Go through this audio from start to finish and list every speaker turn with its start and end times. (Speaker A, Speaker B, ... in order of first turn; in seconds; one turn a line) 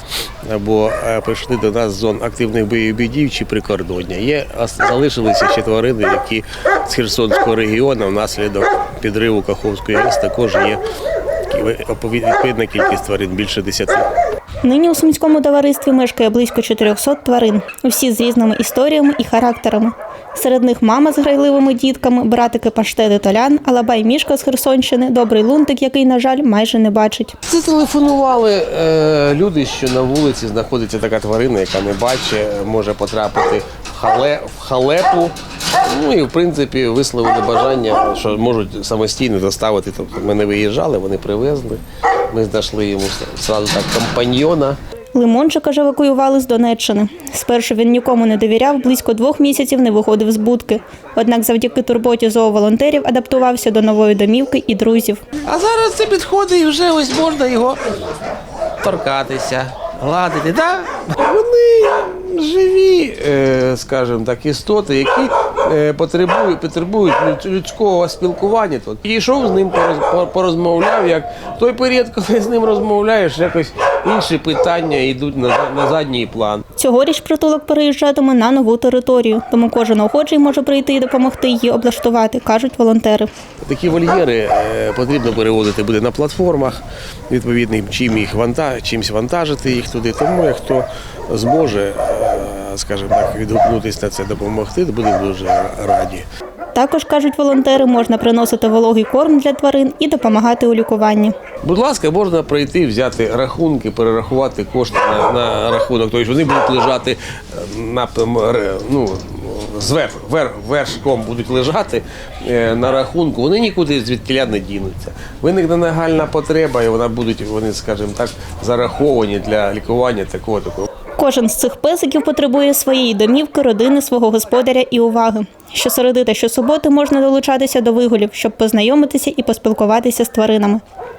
Speaker A: 0.4-10.8
Speaker A: 11.5-14.1
Speaker B: 14.6-27.3
Speaker A: 27.5-44.8
Speaker B: 45.1-55.3
Speaker A: 55.4-57.8
Speaker A: 58.8-76.6
Speaker B: 76.8-83.3
Speaker A: 83.6-96.2
Speaker B: 96.7-101.3
Speaker A: 101.6-120.9
Speaker B: 121.2-130.8